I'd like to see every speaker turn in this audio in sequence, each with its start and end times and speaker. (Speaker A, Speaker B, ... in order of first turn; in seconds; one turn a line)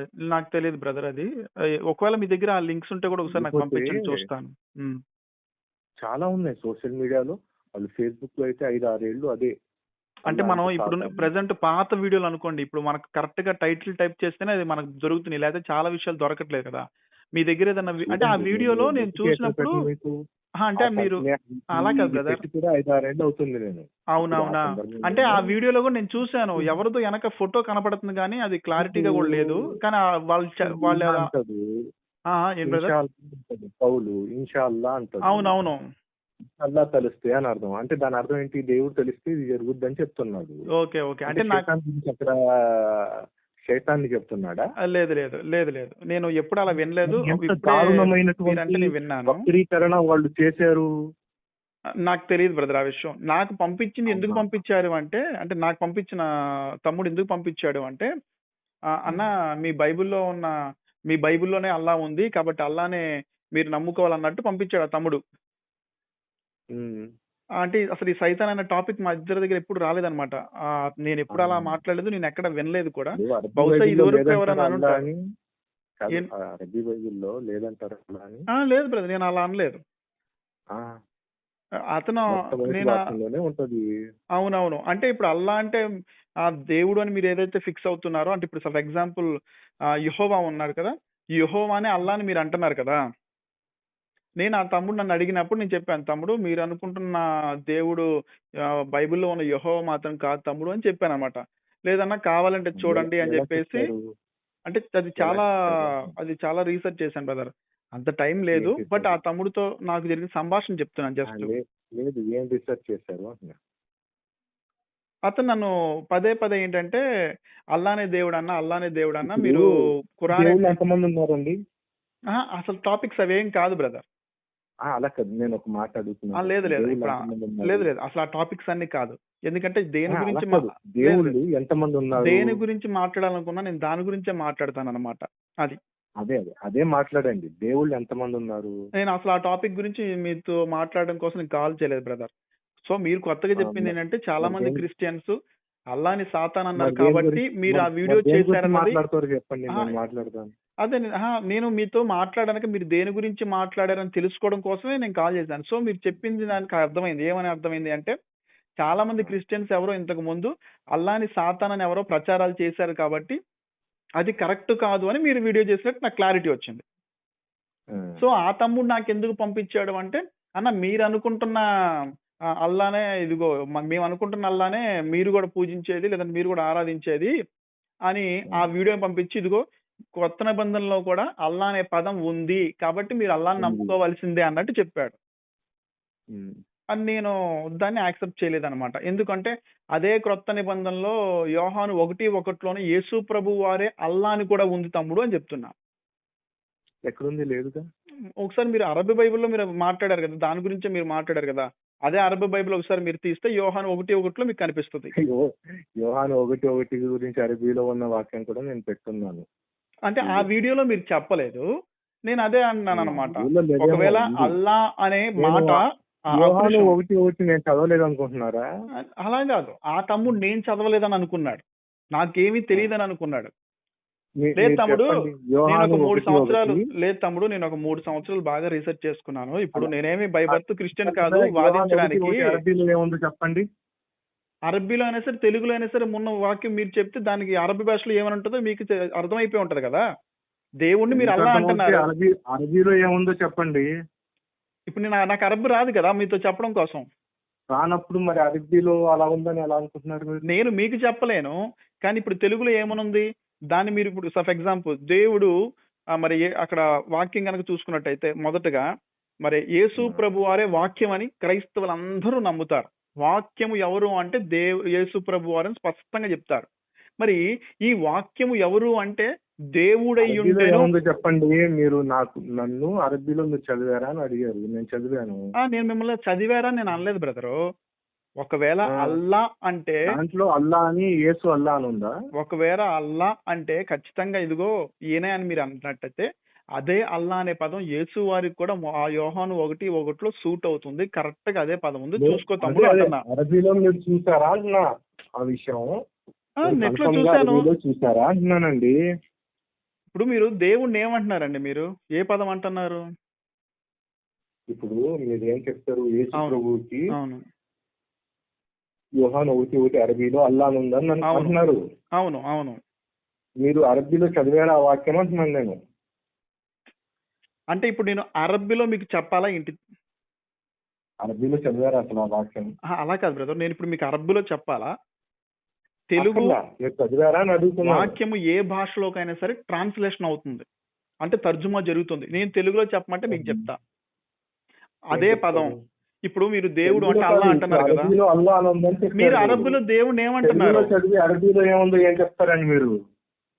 Speaker A: 0.3-1.3
Speaker A: 1.9-5.0
Speaker B: 3.3-4.2
Speaker B: 6.0-9.5
Speaker B: 10.3-11.3
Speaker A: 10.3-16.8
Speaker A: 17.4-19.9
Speaker B: 18.0-20.1
Speaker A: 20.6-21.2
Speaker B: 20.8-25.4
Speaker A: 21.7-22.4
Speaker A: 24.1-31.3
Speaker B: 28.8-29.7
Speaker B: 30.7-31.6
Speaker A: 32.3-32.9
Speaker B: 32.6-35.5
Speaker A: 35.3-35.8
Speaker B: 36.6-40.6
Speaker A: 40.8-41.7
Speaker B: 41.3-43.2
Speaker B: 43.7-44.6
Speaker A: 44.8-49.4
Speaker B: 47.1-50.9
Speaker A: 52.1-56.2
Speaker B: 54.1-54.4
Speaker A: 56.8-58.1
Speaker A: 59.0-60.5
Speaker A: 61.1-63.0
Speaker A: 63.5-65.2
Speaker B: 66.7-67.0
Speaker A: 67.6-75.0
Speaker B: 71.3-71.8
Speaker B: 73.2-75.2
Speaker B: 76.0-78.5
Speaker A: 78.6-79.8
Speaker A: 81.9-83.0
Speaker B: 82.3-83.8
Speaker A: 84.4-85.8
Speaker A: 86.5-89.3
Speaker A: 90.0-93.0
Speaker A: 94.4-98.0
Speaker A: 98.9-103.9
Speaker B: 102.8-104.0
Speaker A: 104.7-111.5
Speaker B: 105.2-106.1
Speaker B: 108.5-109.2
Speaker B: 111.3-113.6
Speaker A: 115.3-117.0
Speaker A: 117.7-119.7
Speaker B: 119.2-119.7
Speaker A: 120.2-120.8
Speaker B: 120.3-121.5
Speaker A: 122.3-124.0
Speaker B: 124.9-127.9
Speaker A: 126.4-131.3
Speaker B: 130.1-132.6
Speaker A: 132.2-135.8
Speaker B: 136.2-138.7
Speaker A: 139.0-142.3
Speaker A: 142.9-145.3
Speaker B: 143.6-144.8
Speaker A: 145.9-149.0
Speaker B: 146.8-150.5
Speaker A: 150.8-158.1
Speaker A: 158.8-163.4
Speaker A: 164.2-166.8
Speaker B: 167.9-168.2
Speaker A: 168.2-171.6
Speaker A: 172.6-177.3
Speaker A: 178.1-179.6
Speaker A: 180.2-185.2
Speaker B: 183.6-183.9
Speaker A: 186.9-195.7
Speaker B: 197.1-197.8
Speaker A: 198.4-205.1
Speaker B: 205.2-205.5
Speaker B: 206.0-209.4
Speaker A: 210.1-211.6
Speaker A: 212.3-217.0
Speaker B: 212.9-214.5
Speaker B: 215.4-215.8
Speaker B: 216.3-218.6
Speaker A: 219.2-221.6
Speaker A: 222.2-223.5
Speaker B: 224.4-226.8
Speaker A: 224.6-232.6
Speaker B: 230.5-233.6
Speaker A: 234.7-240.0
Speaker A: 240.8-242.1
Speaker B: 241.1-243.9
Speaker A: 244.9-247.0
Speaker B: 247.7-250.4
Speaker A: 250.5-255.5
Speaker A: 256.1-258.8
Speaker A: 259.4-266.7
Speaker A: 267.2-270.9
Speaker B: 270.2-275.4
Speaker A: 275.6-277.6
Speaker A: 278.4-280.0
Speaker B: 280.1-282.1
Speaker A: 282.4-286.3
Speaker A: 286.8-293.2
Speaker B: 292.2-294.8
Speaker B: 295.4-295.9
Speaker A: 296.6-297.7
Speaker B: 296.7-298.9
Speaker A: 300.1-303.0
Speaker B: 304.7-307.1
Speaker A: 307.1-307.4
Speaker B: 309.2-311.8
Speaker A: 311.3-311.5
Speaker A: 312.2-312.8
Speaker B: 313.6-315.8
Speaker A: 317.7-319.8
Speaker B: 321.2-322.7
Speaker A: 322.9-324.9
Speaker A: 326.1-326.5
Speaker B: 326.2-328.1
Speaker A: 327.8-330.6
Speaker A: 331.2-333.8
Speaker B: 333.3-333.7
Speaker A: 335.1-335.7
Speaker B: 335.1-335.7
Speaker A: 336.3-338.1
Speaker B: 336.9-339.8
Speaker A: 339.2-340.9
Speaker B: 340.4-342.9